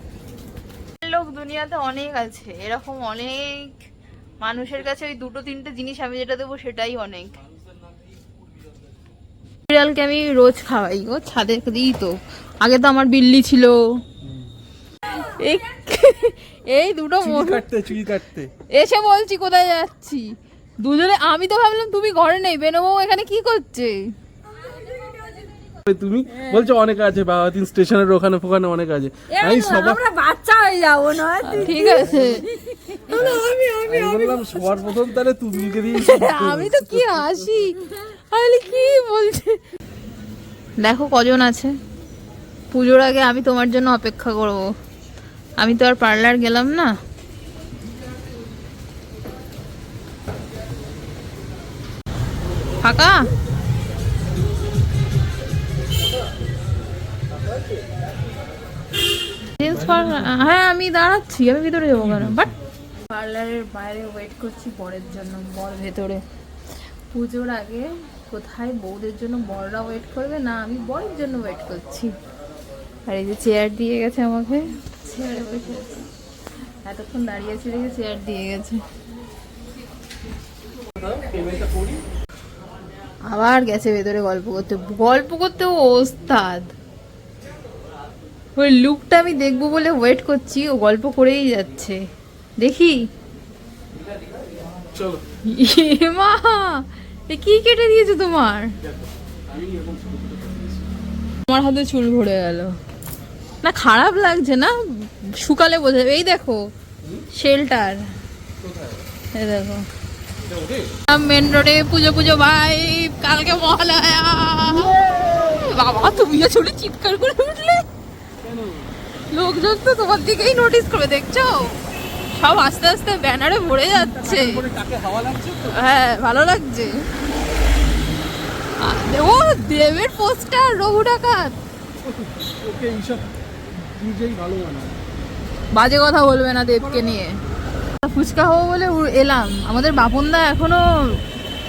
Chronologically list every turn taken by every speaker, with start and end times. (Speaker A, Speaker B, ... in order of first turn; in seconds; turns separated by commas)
Speaker A: 1.0-3.7, Speaker A: 4.4-7.4, Speaker A: 9.7-13.8, Speaker B: 14.2-14.5, Speaker A: 15.1-17.6, Speaker B: 17.2-18.5, Speaker A: 18.7-20.3, Speaker A: 20.8-24.0, Speaker C: 24.6-25.5, Speaker B: 25.8-30.1, Speaker C: 29.4-34.4, Speaker A: 31.4-32.5, Speaker A: 33.1-33.4, Speaker B: 33.1-37.7, Speaker A: 35.9-39.6, Speaker A: 40.8-41.7, Speaker A: 42.7-44.6, Speaker A: 45.6-46.9, Speaker A: 52.8-53.2, Speaker A: 59.6-62.5, Speaker B: 59.6-60.5, Speaker B: 61.9-62.5, Speaker A: 63.1-66.2, Speaker A: 67.1-72.1, Speaker A: 73.1-76.1, Speaker A: 76.8-78.8, Speaker B: 80.9-82.0, Speaker A: 83.3-86.7, Speaker A: 88.6-92.0, Speaker A: 92.6-93.0, Speaker B: 94.9-95.2, Speaker A: 95.5-98.7, Speaker B: 98.8-100.9, Speaker A: 101.5-102.7, Speaker A: 103.6-106.7, Speaker A: 107.3-108.0, Speaker B: 108.6-109.1, Speaker A: 109.3-109.8, Speaker B: 110.5-110.9, Speaker A: 111.1-117.8, Speaker B: 118.4-118.9, Speaker A: 119.3-121.7, Speaker A: 122.3-124.6, Speaker B: 123.9-125.8, Speaker A: 125.7-126.9, Speaker A: 128.8-131.6, Speaker B: 132.0-134.9, Speaker A: 135.7-137.3, Speaker B: 136.7-137.2, Speaker A: 138.0-141.2